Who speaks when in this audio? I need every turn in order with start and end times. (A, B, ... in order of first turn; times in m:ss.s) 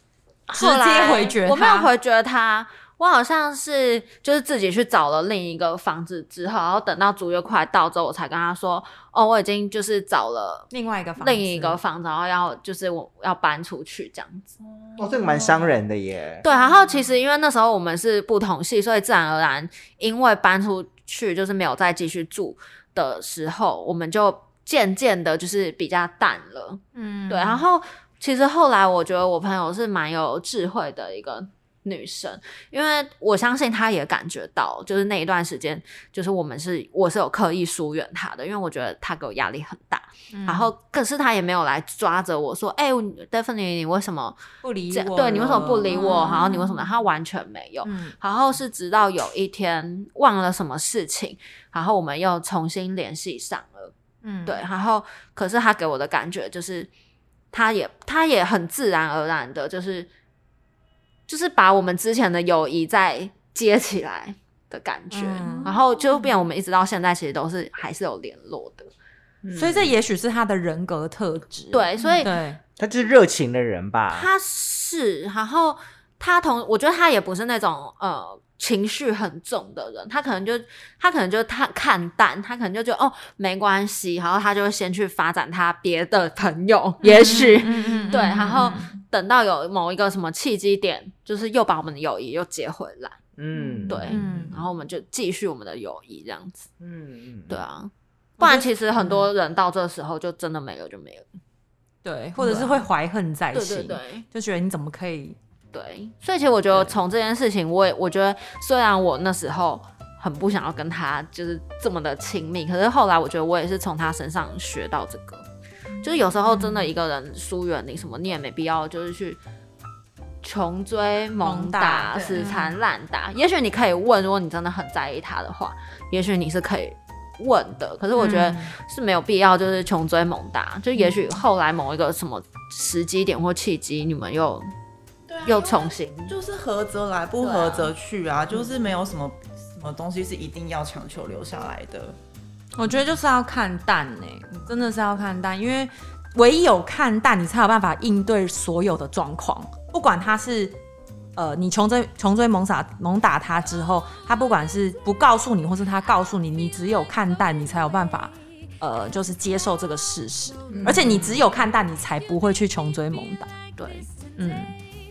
0:00.5-0:10.7 A
0:00.6-0:01.9 B
0:10.7-0:11.8 B
0:11.2-0:14.5 A
0:15.0-0:16.4 C
0:16.4-0:53.9 A
0:26.9-0:27.6 B
0:40.3-0:40.7 B
0:44.6-0:46.8 B
0:47.8-0:48.1 B
0:54.2-0:54.6 B
0:54.4-0:56.9 A
0:57.5-1:00.1 A
1:01.3-1:08.9 A
1:05.1-1:05.7 B
1:09.4-1:09.9 C
1:09.5-1:12.6 B
1:11.7-1:12.3 A
1:12.8-1:14.3 C
1:14.1-1:33.2 A
1:27.0-1:28.9 B
1:33.4-1:34.0 C
1:33.8-1:34.4 D
1:33.9-1:36.7 A
1:34.0-1:34.6 B
1:36.8-1:37.6 C
1:37.5-1:41.3 A
1:38.4-1:39.3 B
1:42.0-1:45.4 B
1:42.4-1:42.8 A
1:43.5-1:44.2 A
1:45.7-1:55.4 A
1:56.0-1:59.4 A
1:56.4-1:56.9 B
2:00.4-2:14.7 A
2:01.4-2:02.8 B
2:02.2-2:02.4 D
2:08.2-2:08.7 B
2:15.3-2:22.2 D
2:15.4-2:16.3 A
2:17.4-2:17.9 A
2:22.8-2:30.8 B
2:31.4-2:43.8 B
2:40.7-2:41.4 D
2:44.4-2:44.7 B